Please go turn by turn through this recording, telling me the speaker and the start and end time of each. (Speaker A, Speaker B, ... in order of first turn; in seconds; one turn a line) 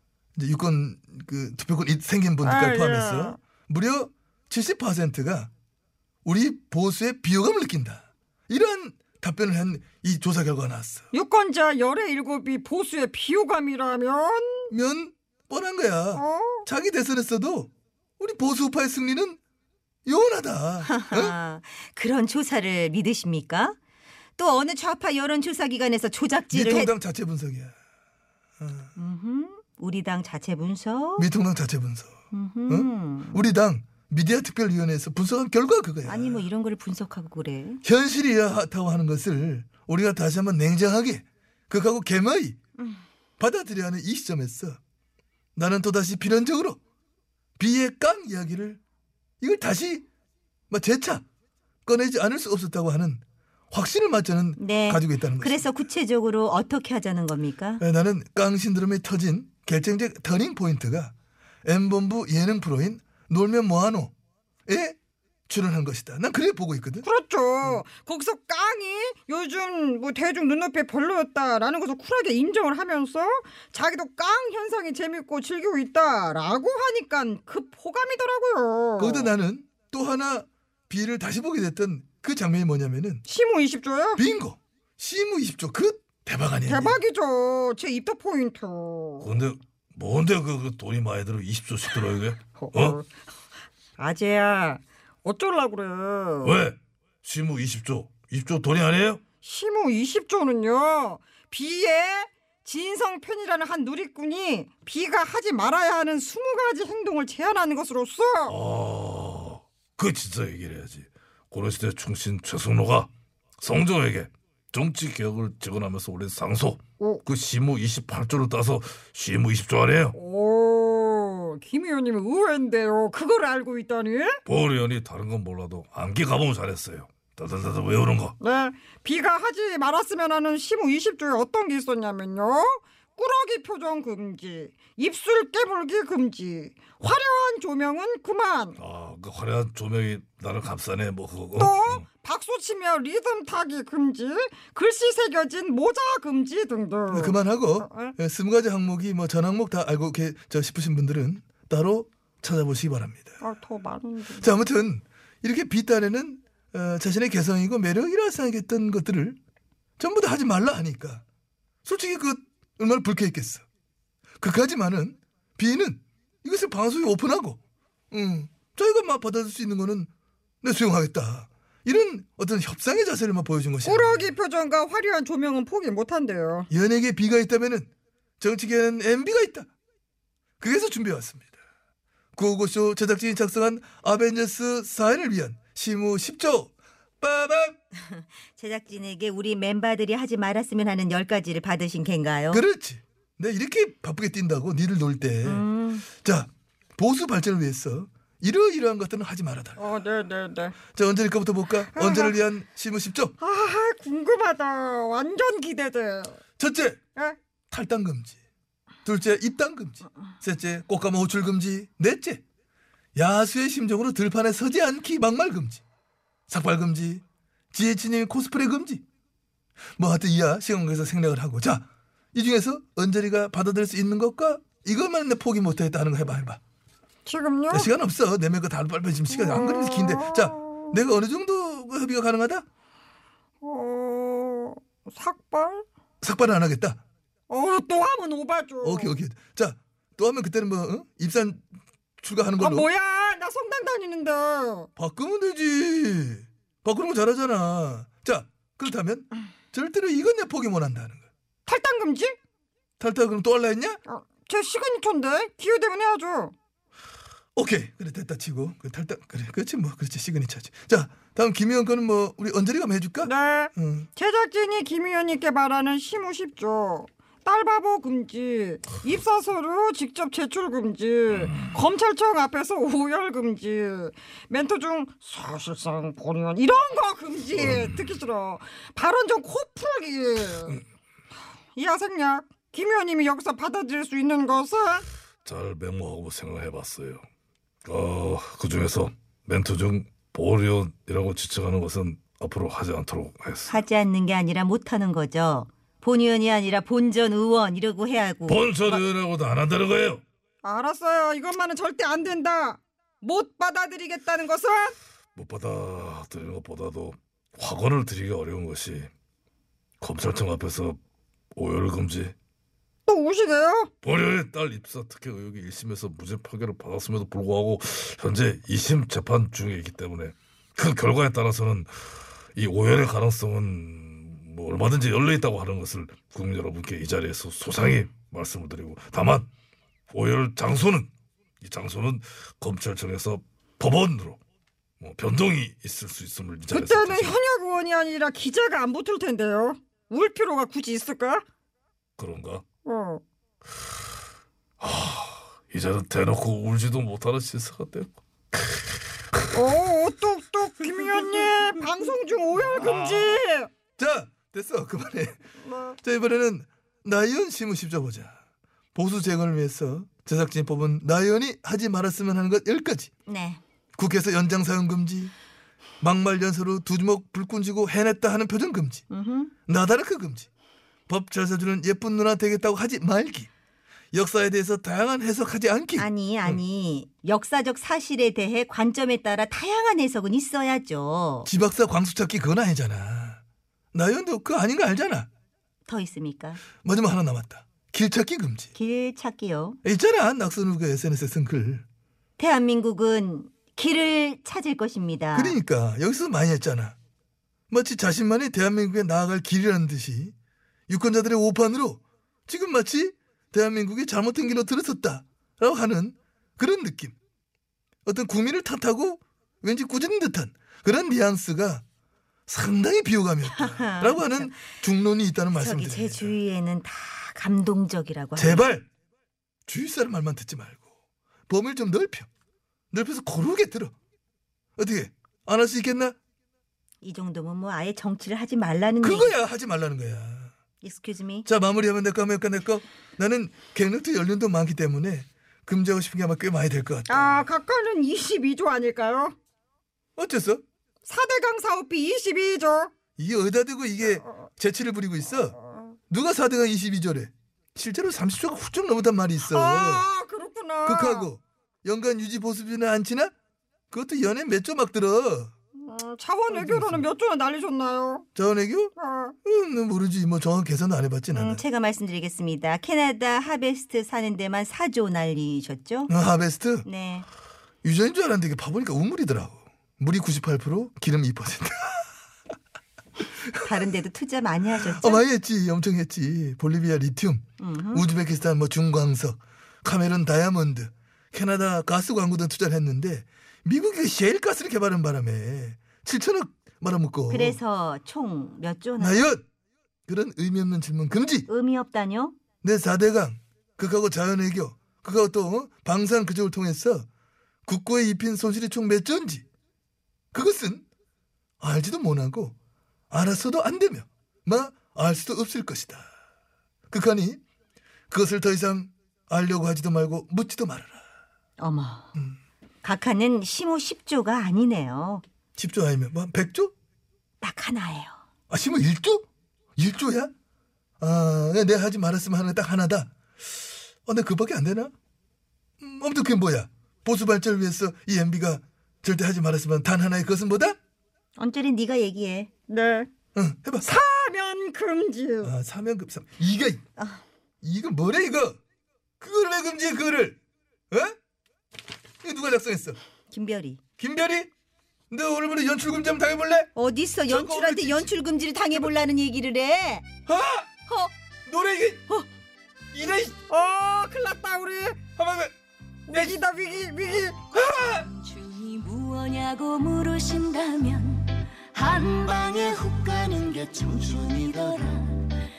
Speaker A: 0.3-5.5
Speaker B: 2.4-3.4
Speaker A: 6.2-11.1
Speaker B: 11.1-14.7
Speaker A: 14.7-19.4
Speaker B: 16.1-16.6
Speaker A: 20.1-21.4
Speaker C: 20.8-23.8
Speaker C: 24.4-26.9
Speaker A: 26.5-27.7
Speaker A: 28.6-28.9
Speaker C: 28.9-31.3
Speaker A: 31.2-32.1
Speaker C: 32.3-33.5
Speaker A: 32.7-36.4
Speaker C: 36.0-37.8
Speaker A: 37.8-42.6
Speaker A: 43.4-44.8
Speaker A: 45.5-46.8
Speaker A: 47.6-48.8
Speaker A: 49.4-50.0
Speaker A: 50.7-51.2
Speaker A: 51.8-55.7
Speaker C: 54.6-57.8
Speaker A: 57.8-61.1
Speaker A: 61.6-64.1
Speaker A: 64.7-65.0
Speaker A: 65.5-67.1
Speaker B: 67.0-79.3
Speaker A: 79.0-83.2
Speaker B: 83.3-84.2
Speaker A: 84.2-87.0
Speaker B: 86.7-89.3
Speaker D: 89.2-93.0
Speaker B: 92.6-93.1
Speaker B: 94.0-96.6
Speaker D: 96.4-99.2
Speaker B: 99.4-108.6
Speaker D: 108.5-113.1
Speaker D: 113.6-120.2
Speaker B: 120.1-124.4
Speaker D: 124.5-128.3
Speaker B: 128.4-138.8
Speaker D: 138.8-142.1
Speaker B: 141.6-148.1
Speaker A: 147.1-153.4
Speaker B: 153.4-154.5
Speaker A: 154.4-159.4
Speaker A: 160.0-161.2
Speaker A: 161.8-163.6
Speaker A: 164.4-167.6
Speaker A: 168.1-170.1
Speaker A: 170.6-174.1
Speaker B: 173.8-176.7
Speaker A: 176.7-177.9
Speaker A: 178.4-179.7
Speaker A: 180.6-181.6
Speaker A: 182.3-187.7
Speaker C: 187.9-192.6
Speaker A: 192.5-195.6
Speaker C: 195.4-196.1
Speaker A: 196.2-199.8
Speaker B: 199.8-200.8
Speaker A: 200.9-203.3
Speaker B: 201.9-202.4
Speaker B: 203.4-206.4
Speaker A: 206.6-207.0
Speaker A: 207.7-208.4
Speaker A: 209.0-212.4
Speaker A: 213.1-215.8
Speaker A: 216.5-219.0
Speaker A: 220.0-226.6
Speaker B: 227.2-227.9
Speaker A: 227.7-232.6
Speaker B: 229.3-230.9
Speaker B: 233.6-235.8
Speaker A: 236.2-237.0
Speaker B: 237.5-239.1
Speaker A: 238.8-241.6
Speaker A: 242.2-242.9
Speaker B: 242.6-244.9
Speaker A: 245.0-251.3
Speaker B: 251.7-252.3
Speaker A: 253.0-254.0
Speaker B: 254.1-256.5
Speaker A: 257.5-264.1
Speaker B: 263.2-280.8
Speaker D: 277.6-278.1
Speaker B: 281.8-285.0
Speaker D: 285.4-287.2
Speaker D: 287.8-293.7
Speaker C: 293.7-298.7
Speaker D: 298.4-300.2
Speaker B: 300.6-304.9
Speaker D: 305.4-309.1
Speaker D: 310.0-311.0
Speaker D: 311.5-312.3
Speaker B: 313.1-313.9
Speaker D: 314.0-321.9
Speaker D: 322.6-329.5
Speaker D: 330.1-331.1
Speaker D: 331.6-334.4
Speaker D: 335.0-337.4
Speaker B: 336.7-341.4
Speaker D: 342.2-342.6
Speaker B: 342.8-343.2
Speaker D: 344.8-348.8
Speaker B: 349.5-353.7
Speaker D: 352.8-353.1
Speaker A: 354.0-355.4
Speaker B: 355.6-355.9
Speaker A: 356.0-358.4
Speaker A: 358.9-363.1
Speaker C: 363.3-363.6
Speaker A: 364.0-365.3
Speaker A: 366.0-369.0
Speaker C: 369.1-369.5
Speaker A: 369.7-370.5
Speaker A: 371.1-373.5
Speaker A: 374.1-376.6
Speaker C: 375.9-381.5
Speaker A: 381.4-383.4
Speaker A: 383.9-385.3
Speaker C: 385.9-386.6
Speaker A: 386.8-388.7
Speaker C: 388.7-389.8
Speaker A: 389.8-391.8
Speaker C: 392.4-395.6
Speaker A: 395.3-396.9
Speaker A: 397.7-400.3
Speaker A: 400.9-407.1
Speaker A: 408.1-411.8
Speaker A: 412.5-416.3
Speaker C: 413.5-414.6
Speaker C: 415.5-418.7
Speaker A: 418.4-418.8
Speaker A: 419.7-420.8
Speaker A: 421.5-422.3
Speaker A: 422.9-423.9
Speaker A: 424.8-426.1
Speaker C: 427.0-429.3
Speaker A: 429.0-430.5
Speaker C: 430.8-431.5
Speaker A: 431.4-437.4
Speaker B: 437.1-439.3
Speaker A: 440.2-440.6
Speaker B: 441.0-442.9
Speaker A: 443.2-445.6
Speaker A: 446.1-450.1
Speaker B: 449.4-451.3
Speaker A: 450.8-453.3
Speaker A: 453.9-455.5
Speaker B: 455.8-458.2
Speaker A: 456.5-457.0
Speaker A: 458.3-458.9
Speaker B: 459.0-459.3
Speaker A: 459.4-461.6
Speaker C: 461.3-466.1
Speaker A: 466.1-466.9
Speaker C: 466.8-467.2
Speaker A: 467.8-472.0
Speaker C: 473.6-475.2
Speaker A: 474.7-487.6
Speaker C: 477.6-478.0
Speaker C: 487.3-489.2
Speaker A: 489.0-489.4
Speaker A: 490.1-491.5
Speaker C: 491.5-492.4
Speaker A: 492.6-497.1
Speaker A: 497.6-499.4
Speaker A: 500.3-500.8
Speaker A: 501.6-502.5
Speaker A: 503.1-506.1
Speaker A: 506.9-507.4
Speaker A: 508.1-511.0
Speaker C: 511.6-512.1
Speaker C: 512.8-515.2
Speaker A: 515.5-516.7
Speaker C: 517.4-518.1
Speaker A: 518.5-519.2
Speaker A: 519.8-520.3
Speaker A: 521.0-523.1
Speaker A: 524.0-524.9
Speaker A: 525.8-530.8
Speaker C: 531.4-532.5
Speaker B: 532.7-533.1
Speaker A: 533.3-533.9
Speaker B: 533.8-535.5
Speaker A: 535.4-536.8
Speaker C: 537.0-537.2
Speaker A: 537.6-538.5
Speaker A: 539.2-540.4
Speaker A: 540.9-541.1
Speaker A: 542.2-543.0
Speaker C: 543.3-543.8
Speaker A: 544.0-544.5
Speaker A: 545.1-546.7
Speaker C: 546.7-550.0
Speaker A: 547.3-548.1
Speaker A: 550.3-550.7
Speaker A: 551.5-552.2
Speaker A: 552.9-553.4
Speaker B: 553.5-555.0
Speaker A: 555.2-555.5
Speaker B: 556.1-557.5
Speaker A: 556.1-556.4
Speaker A: 557.5-558.0
Speaker E: 558.2-565.2